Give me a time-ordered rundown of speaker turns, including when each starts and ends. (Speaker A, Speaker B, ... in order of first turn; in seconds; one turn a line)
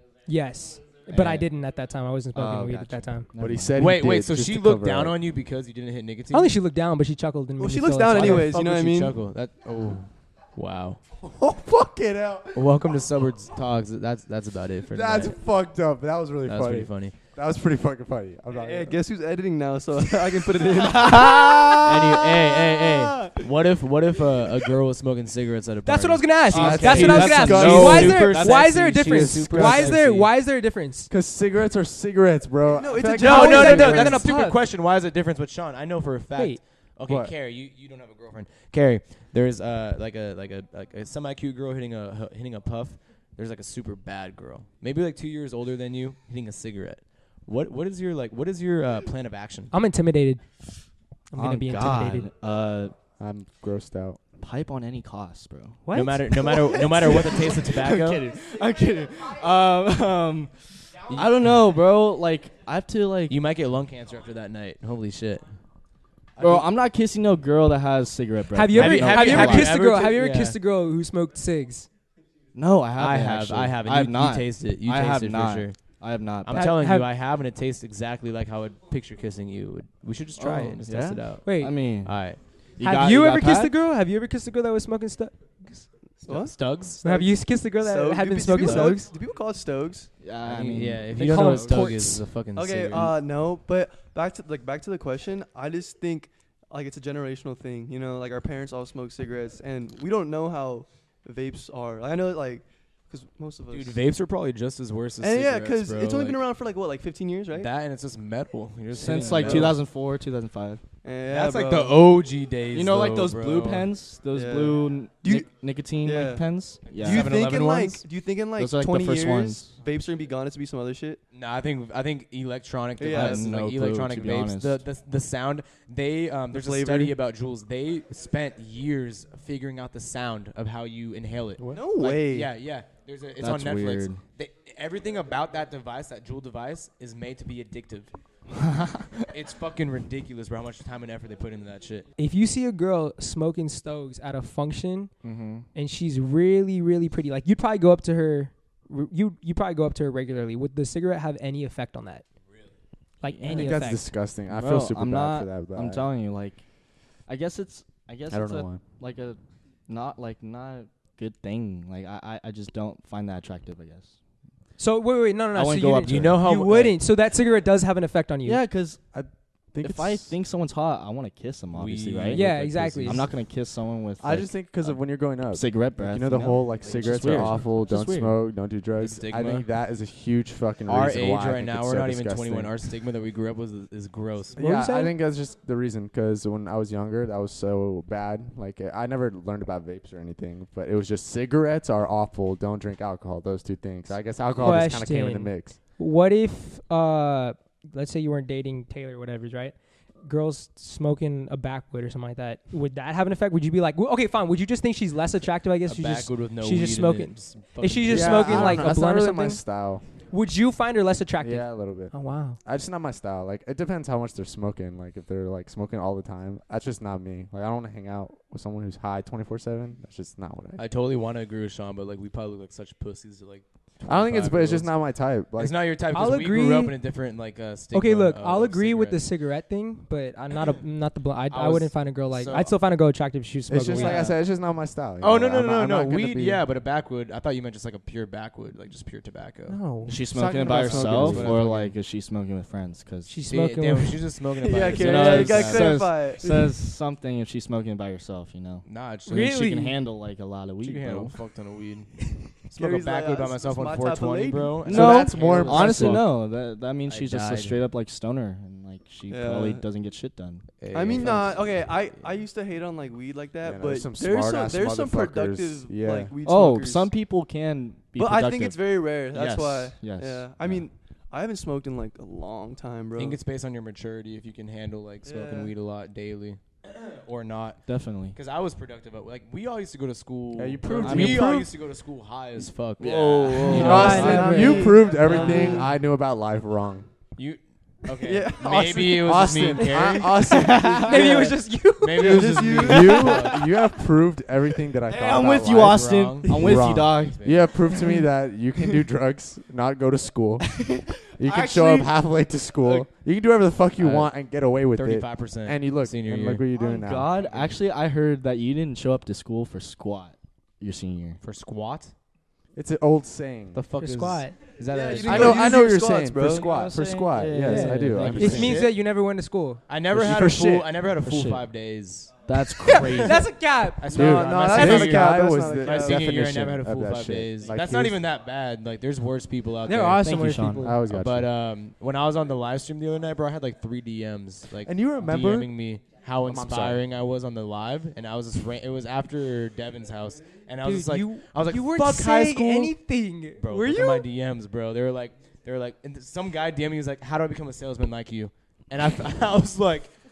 Speaker A: 0.2-3.3
Speaker B: 1.1-1.5
Speaker B: 2.3-3.8
Speaker C: 3.4-5.2
Speaker D: 3.8-6.5
Speaker A: 6.3-8.5
Speaker E: 7.6-9.2
Speaker D: 8.1-11.0
Speaker C: 11.2-12.7
Speaker D: 12.5-15.4
Speaker C: 14.9-19.0
Speaker D: 16.4-17.1
Speaker E: 18.5-21.6
Speaker B: 20.8-23.4
Speaker D: 21.8-30.3
Speaker A: 25.8-31.1
Speaker B: 26.5-29.3
Speaker C: 26.5-30.0
Speaker C: 31.1-34.2
Speaker E: 32.7-34.2
Speaker A: 33.2-34.6
Speaker D: 33.2-49.7
Speaker C: 37.0-37.3
Speaker A: 49.7-50.4
Speaker A: 51.3-52.3
Speaker B: 51.3-52.9
Speaker C: 53.2-54.2
Speaker B: 54.4-55.8
Speaker A: 55.9-56.2
Speaker D: 55.9-58.2
Speaker E: 56.8-57.1
Speaker B: 57.1-60.5
Speaker B: 61.1-63.4
Speaker D: 63.3-65.5
Speaker D: 66.4-66.7
Speaker B: 66.4-69.8
Speaker A: 68.5-71.9
Speaker D: 68.7-70.6
Speaker B: 72.5-76.7
Speaker D: 73.0-75.8
Speaker D: 76.4-82.4
Speaker A: 76.5-77.1
Speaker B: 80.4-82.2
Speaker A: 81.4-81.8
Speaker B: 82.8-83.7
Speaker A: 82.8-85.9
Speaker E: 86.2-90.1
Speaker D: 86.3-87.0
Speaker A: 87.0-89.1
Speaker B: 90.2-91.8
Speaker D: 90.4-93.2
Speaker A: 91.1-92.2
Speaker E: 92.5-104.0
Speaker D: 103.7-106.4
Speaker E: 105.2-107.7
Speaker D: 107.5-109.8
Speaker B: 109.0-110.8
Speaker E: 109.2-109.7
Speaker E: 111.0-112.0
Speaker D: 111.3-113.9
Speaker B: 112.7-117.4
Speaker E: 114.3-115.5
Speaker E: 116.0-121.2
Speaker D: 116.8-118.0
Speaker B: 118.5-119.8
Speaker D: 121.3-138.1
Speaker E: 123.0-123.4
Speaker B: 123.1-124.8
Speaker E: 126.5-127.2
Speaker E: 131.7-132.5
Speaker B: 133.4-134.2
Speaker B: 138.5-139.3
Speaker D: 139.2-142.1
Speaker A: 142.2-145.1
Speaker B: 145.2-145.7
Speaker A: 145.7-152.2
Speaker A: 153.2-154.1
Speaker B: 153.3-153.7
Speaker C: 153.5-156.1
Speaker B: 154.5-156.6
Speaker B: 157.3-164.2
Speaker C: 158.3-158.8
Speaker A: 164.8-168.6
Speaker B: 165.5-166.4
Speaker D: 166.0-167.0
Speaker B: 168.4-169.1
Speaker C: 169.1-170.3
Speaker B: 169.8-178.4
Speaker D: 171.7-172.5
Speaker A: 172.3-173.2
Speaker C: 174.2-182.7
Speaker D: 177.2-177.5
Speaker D: 179.0-179.7
Speaker D: 180.9-184.6
Speaker C: 184.6-195.8
Speaker A: 184.6-185.1
Speaker A: 194.6-209.6
Speaker D: 205.9-208.9
Speaker C: 208.1-210.0
Speaker A: 210.3-212.6
Speaker C: 211.4-220.8
Speaker D: 220.8-224.9
Speaker C: 224.1-225.8
Speaker D: 225.6-229.2
Speaker A: 226.1-227.0
Speaker A: 227.9-234.3
Speaker D: 231.5-232.7
Speaker C: 233.7-236.6
Speaker D: 235.2-239.8
Speaker A: 239.7-240.2
Speaker B: 240.1-243.4
Speaker C: 240.3-241.9
Speaker D: 240.6-241.9
Speaker A: 243.3-244.2
Speaker D: 243.5-246.1
Speaker E: 244.6-246.7
Speaker B: 244.9-251.4
Speaker D: 248.8-249.6
Speaker A: 249.3-250.0
Speaker D: 250.8-257.8
Speaker E: 252.8-254.9
Speaker B: 254.8-261.5
Speaker C: 254.9-256.3
Speaker E: 259.3-259.8
Speaker D: 260.8-262.4
Speaker E: 260.9-267.1
Speaker C: 263.6-266.3
Speaker B: 266.4-268.9
Speaker E: 268.1-273.4
Speaker D: 269.3-269.9
Speaker B: 270.0-270.8
Speaker D: 273.1-284.5
Speaker E: 275.2-275.7
Speaker B: 277.9-278.4
Speaker C: 280.5-281.6
Speaker B: 281.0-281.6
Speaker B: 283.0-284.8
Speaker E: 283.6-285.9
Speaker C: 283.7-287.1
Speaker A: 283.8-285.8
Speaker D: 285.2-285.8
Speaker D: 287.4-290.5
Speaker E: 288.1-290.2
Speaker C: 289.2-291.5
Speaker B: 290.5-291.6
Speaker A: 291.1-292.6
Speaker D: 292.0-293.6
Speaker E: 292.2-293.5
Speaker C: 292.6-307.3
Speaker B: 295.1-297.4
Speaker D: 295.5-297.7
Speaker B: 300.7-302.1
Speaker D: 304.0-304.3
Speaker D: 304.9-306.6
Speaker E: 306.7-307.4
Speaker B: 307.1-311.4
Speaker D: 307.4-307.7
Speaker D: 311.4-312.1
Speaker C: 312.7-313.8
Speaker D: 313.7-315.9
Speaker A: 314.0-314.6
Speaker E: 314.9-316.7
Speaker C: 315.2-318.8
Speaker B: 316.4-318.8
Speaker A: 317.6-319.8
Speaker D: 318.2-319.0
Speaker D: 319.9-323.4
Speaker C: 320.1-321.0
Speaker B: 321.2-321.7
Speaker B: 322.4-323.5
Speaker A: 322.8-325.2
Speaker D: 324.0-330.3
Speaker C: 324.1-328.2
Speaker E: 324.7-326.2
Speaker A: 329.8-331.0
Speaker B: 330.1-330.9
Speaker C: 330.8-331.5
Speaker D: 331.1-342.9
Speaker C: 334.8-335.7
Speaker C: 336.4-337.0
Speaker A: 340.8-344.2
Speaker D: 343.6-350.1